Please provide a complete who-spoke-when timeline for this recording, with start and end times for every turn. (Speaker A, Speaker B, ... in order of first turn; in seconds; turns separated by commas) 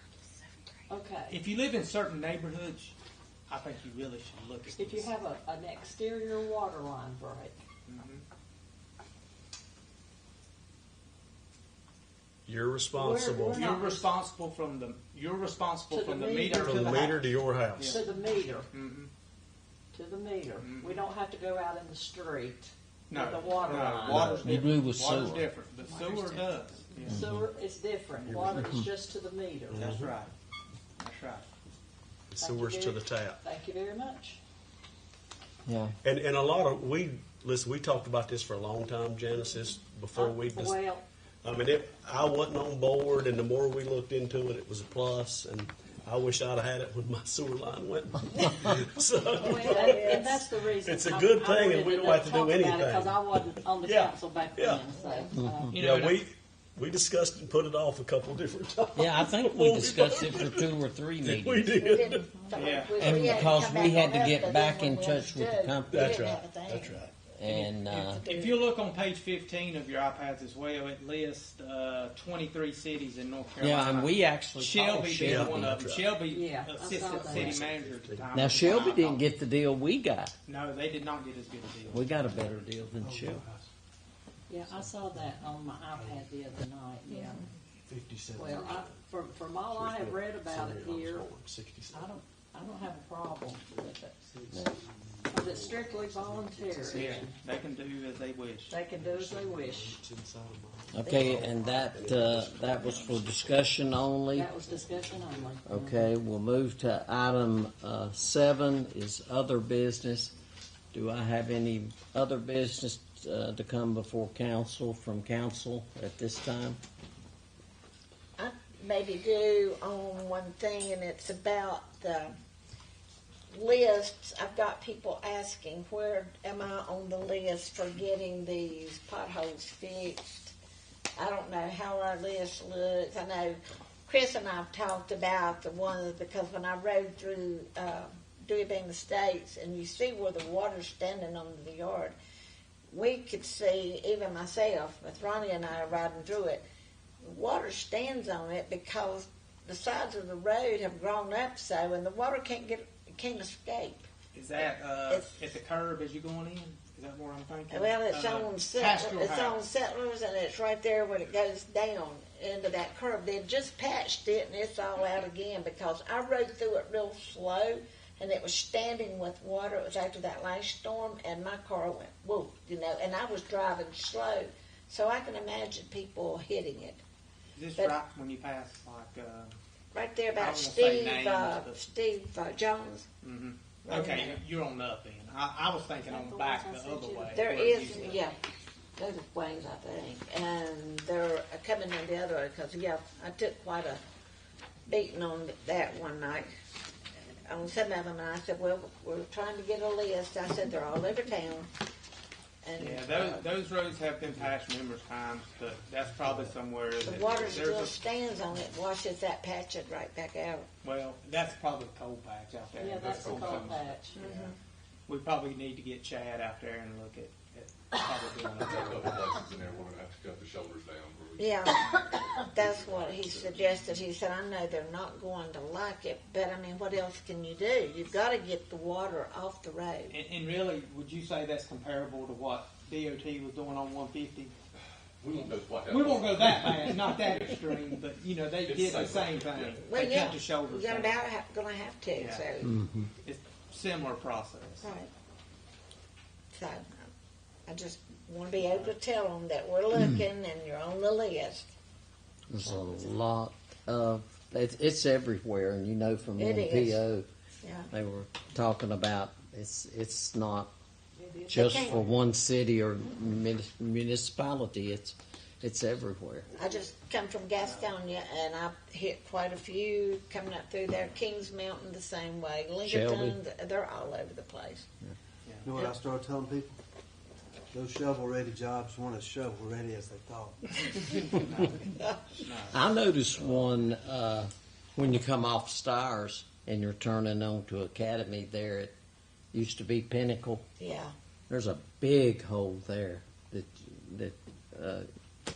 Speaker A: 0.9-1.4, Speaker B: 1.3-3.0, Speaker B: 3.5-5.1, Speaker A: 4.8-7.6, Speaker B: 7.9-8.2, Speaker C: 12.5-13.8, Speaker A: 12.9-14.1, Speaker B: 13.5-17.2, Speaker A: 15.9-17.1, Speaker C: 16.5-18.0, Speaker B: 17.8-18.0, Speaker A: 17.8-18.7, Speaker B: 18.7-19.1, Speaker A: 19.9-24.6, Speaker B: 20.6-21.0, Speaker B: 23.1-27.2, Speaker C: 24.1-24.3, Speaker D: 24.2-25.5, Speaker A: 25.8-29.9, Speaker C: 27.1-27.4, Speaker C: 28.2-28.9, Speaker B: 29.7-30.3, Speaker C: 29.7-30.1, Speaker B: 31.0-31.5, Speaker C: 32.4-33.4, Speaker A: 32.4-34.4, Speaker D: 35.7-36.0, Speaker C: 36.0-40.9, Speaker A: 40.1-41.0, Speaker C: 41.4-54.9, Speaker A: 49.3-55.8, Speaker E: 49.4-50.3, Speaker E: 55.0-55.3, Speaker C: 55.7-60.7, Speaker B: 55.7-56.2, Speaker D: 59.0-61.8, Speaker C: 61.2-62.3, Speaker E: 61.7-67.0, Speaker B: 62.5-63.2, Speaker D: 63.0-66.2, Speaker C: 65.9-67.2, Speaker D: 67.3-68.2, Speaker B: 67.5-79.2, Speaker E: 68.2-68.6, Speaker D: 73.6-75.8, Speaker C: 75.1-76.2, Speaker A: 76.3-77.6, Speaker C: 76.9-78.9, Speaker D: 78.3-80.3, Speaker B: 80.5-82.2, Speaker D: 81.9-83.4, Speaker C: 83.0-83.7, Speaker A: 84.5-87.5, Speaker C: 84.7-85.4, Speaker C: 85.9-86.3, Speaker E: 87.1-87.3, Speaker C: 87.9-89.0, Speaker A: 88.3-91.3, Speaker C: 89.6-92.2, Speaker A: 91.9-94.2, Speaker C: 94.3-97.3, Speaker D: 94.5-94.8, Speaker A: 95.3-97.3, Speaker B: 96.9-98.8, Speaker A: 98.7-100.0, Speaker C: 98.9-103.8, Speaker D: 100.9-104.5, Speaker A: 104.3-106.1, Speaker C: 104.7-105.6, Speaker D: 105.7-110.3, Speaker D: 110.9-116.8, Speaker E: 118.4-122.3, Speaker E: 123.5-130.5, Speaker E: 131.2-142.2, Speaker E: 142.9-146.6, Speaker E: 147.2-154.1, Speaker B: 154.3-159.6, Speaker E: 157.7-177.0, Speaker B: 177.6-179.6, Speaker E: 179.9-183.1, Speaker B: 180.4-181.8, Speaker B: 183.2-188.2, Speaker E: 183.8-184.4, Speaker A: 184.0-184.2, Speaker A: 186.0-188.4, Speaker E: 187.3-188.4, Speaker E: 189.0-194.0, Speaker E: 194.9-196.5, Speaker E: 197.5-201.7, Speaker E: 202.6-203.4, Speaker B: 202.8-208.0, Speaker E: 207.0-210.7, Speaker B: 210.8-214.5, Speaker A: 212.8-214.3, Speaker F: 213.1-213.8, Speaker E: 214.2-214.6, Speaker B: 215.1-219.3, Speaker F: 218.5-224.0, Speaker E: 221.4-221.8, Speaker E: 222.5-230.2, Speaker B: 230.1-234.5, Speaker F: 235.2-237.8, Speaker B: 235.9-241.3, Speaker F: 238.6-239.9, Speaker E: 239.8-242.8, Speaker B: 242.2-242.7, Speaker D: 242.6-243.1, Speaker B: 243.2-244.9, Speaker E: 244.8-245.1, Speaker E: 246.5-247.1, Speaker E: 247.7-251.7, Speaker D: 252.5-257.3, Speaker E: 252.6-253.1, Speaker E: 256.4-257.0, Speaker E: 257.6-257.9, Speaker D: 257.9-260.7, Speaker A: 261.2-262.1, Speaker D: 261.5-266.5, Speaker E: 261.5-262.0, Speaker E: 266.6-274.9, Speaker B: 267.6-267.9, Speaker D: 272.8-273.4, Speaker G: 275.7-276.7, Speaker G: 277.8-280.6, Speaker B: 281.1-282.8, Speaker D: 282.7-288.9, Speaker D: 289.5-290.7, Speaker E: 290.8-291.1, Speaker D: 291.5-295.1